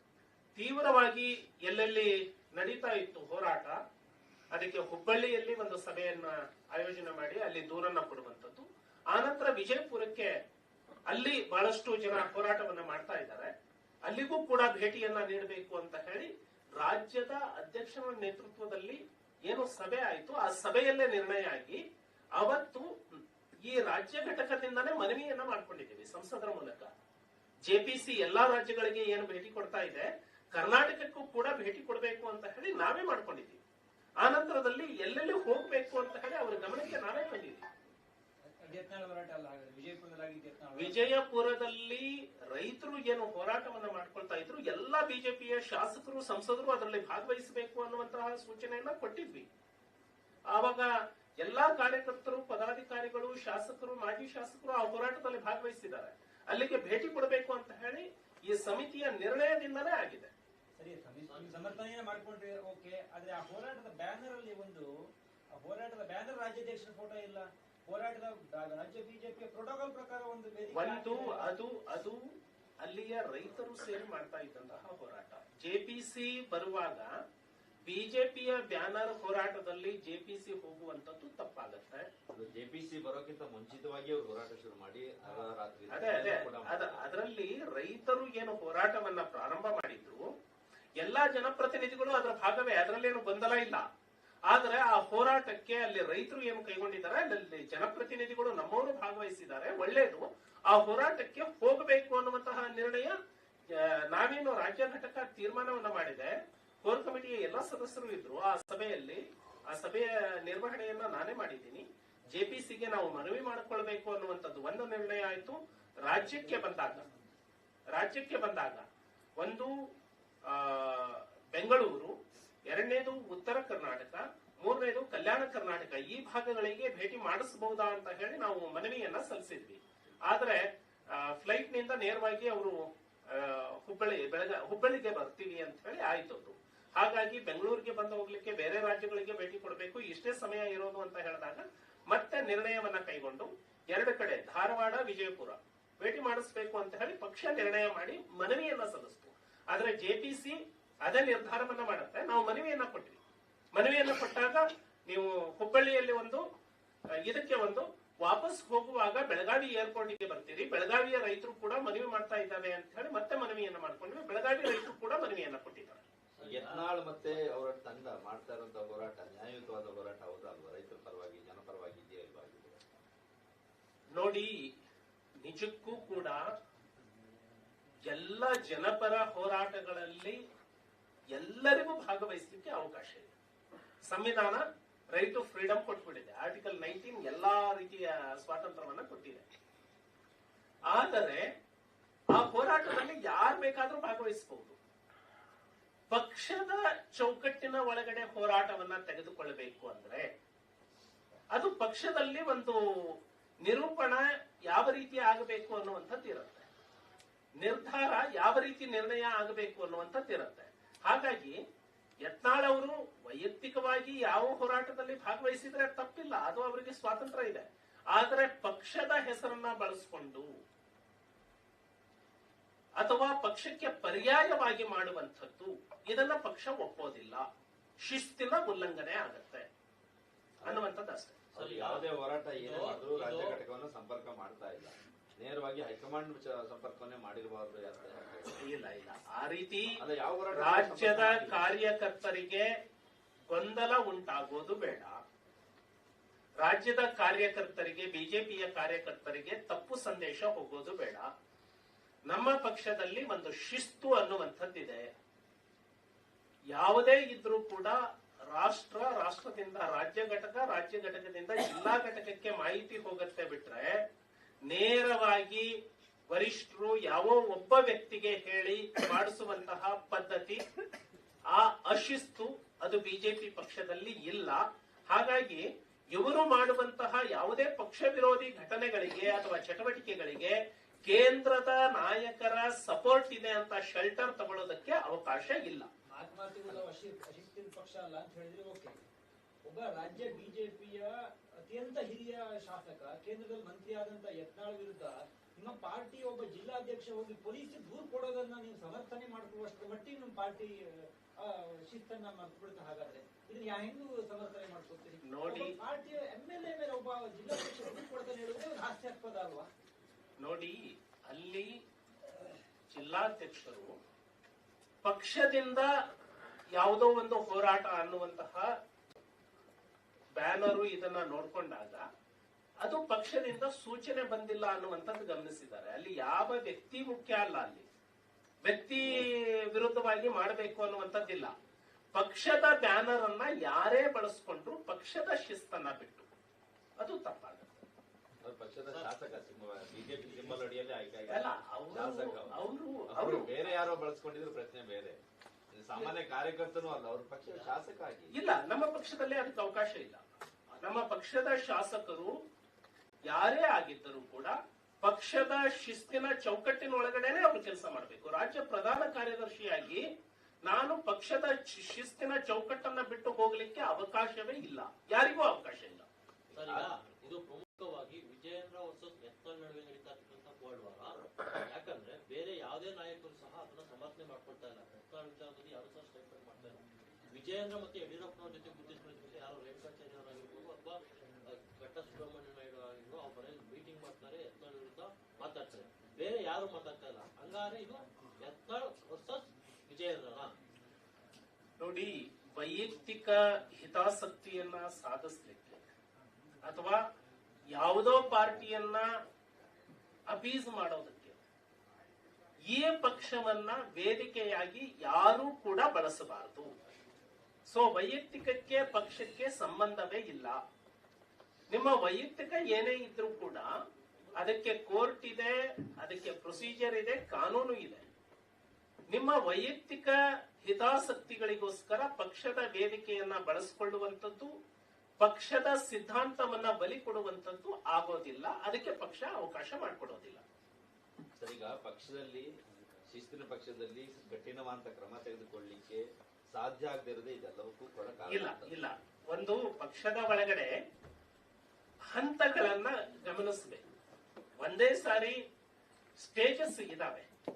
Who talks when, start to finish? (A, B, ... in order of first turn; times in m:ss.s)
0:00.6-0:03.8 A
0:04.5-0:10.4 A
0:11.1-0:13.5 A
0:14.0-0:21.8 A
0:22.4-0:22.9 A
0:23.6-0:26.9 A
0:27.6-0:33.6 A
0:34.2-0:37.6 A
0:38.4-0:41.2 B
0:40.8-0:49.5 A
0:50.5-1:00.3 A
1:00.8-1:04.9 B
1:01.3-1:01.8 C
1:05.5-1:11.5 B
1:10.7-1:12.2 A
1:12.8-1:17.1 A
1:17.8-1:22.1 A
1:22.3-1:27.0 D
1:25.9-1:30.3 A
1:31.0-1:33.8 A
1:34.5-1:43.2 A
1:43.7-1:57.0 A
1:56.0-1:57.3 B
1:57.9-1:58.8 A
1:59.4-1:59.7 A
2:00.4-2:02.1 A
2:02.7-2:33.2 A
2:33.7-2:36.4 A
2:37.2-2:46.0 A
2:46.4-2:47.0 C
2:46.4-2:52.8 D
2:54.1-2:54.5 A
2:55.4-2:56.5 A
2:58.0-3:00.4 A
3:01.3-3:03.3 A
3:04.0-3:09.4 A
3:10.9-3:11.5 A
3:12.3-3:14.8 A
3:16.1-3:20.3 A
3:21.5-3:26.6 A
3:27.6-3:31.6 A
3:32.2-3:40.6 A
3:43.0-3:47.5 A
3:48.0-3:49.7 A
3:50.6-3:50.9 D
3:50.6-3:51.4 A
3:51.5-3:53.6 C
3:51.5-3:58.6 D
3:58.6-4:00.0 A
4:00.0-4:01.6 D
4:00.5-4:02.7 A
4:03.5-4:05.2 A
4:06.6-4:11.3 A
4:12.3-4:15.1 A
4:16.7-4:18.0 A
4:18.5-4:24.0 A
4:24.7-4:25.7 A
4:26.3-4:30.6 A
4:31.5-4:45.9 A
4:46.1-4:49.0 B
4:49.6-5:09.7 B
5:05.2-5:05.8 A
5:10.4-5:11.7 A
5:12.9-5:13.9 A
5:15.0-5:15.9 A
5:16.7-5:18.7 A
5:20.4-5:22.0 A
5:22.8-5:27.9 A
5:28.6-5:31.5 A
5:32.1-5:36.3 A
5:37.0-5:37.8 A
5:38.4-5:45.2 D
5:38.8-5:39.1 C
5:41.3-5:43.5 A
5:45.7-5:48.3 D
5:47.5-5:47.8 C
5:48.3-5:50.2 A
5:50.8-5:52.4 A
5:53.2-6:00.0 A
6:00.6-6:06.0 A
6:06.5-6:07.0 D
6:06.5-6:30.5 C
6:31.8-6:35.9 A
6:36.6-6:37.0 A
6:37.7-6:39.1 A
6:40.3-6:41.4 A
6:42.6-6:46.7 A
6:47.7-6:50.6 A
6:51.7-6:53.7 A
6:54.4-6:58.1 A
6:59.1-7:04.5 A
7:05.2-7:10.4 A
7:11.4-7:12.5 D
7:13.1-7:18.7 D
7:18.3-7:20.7 A
7:22.1-7:23.8 A
7:24.6-7:25.4 A
7:26.2-7:27.3 A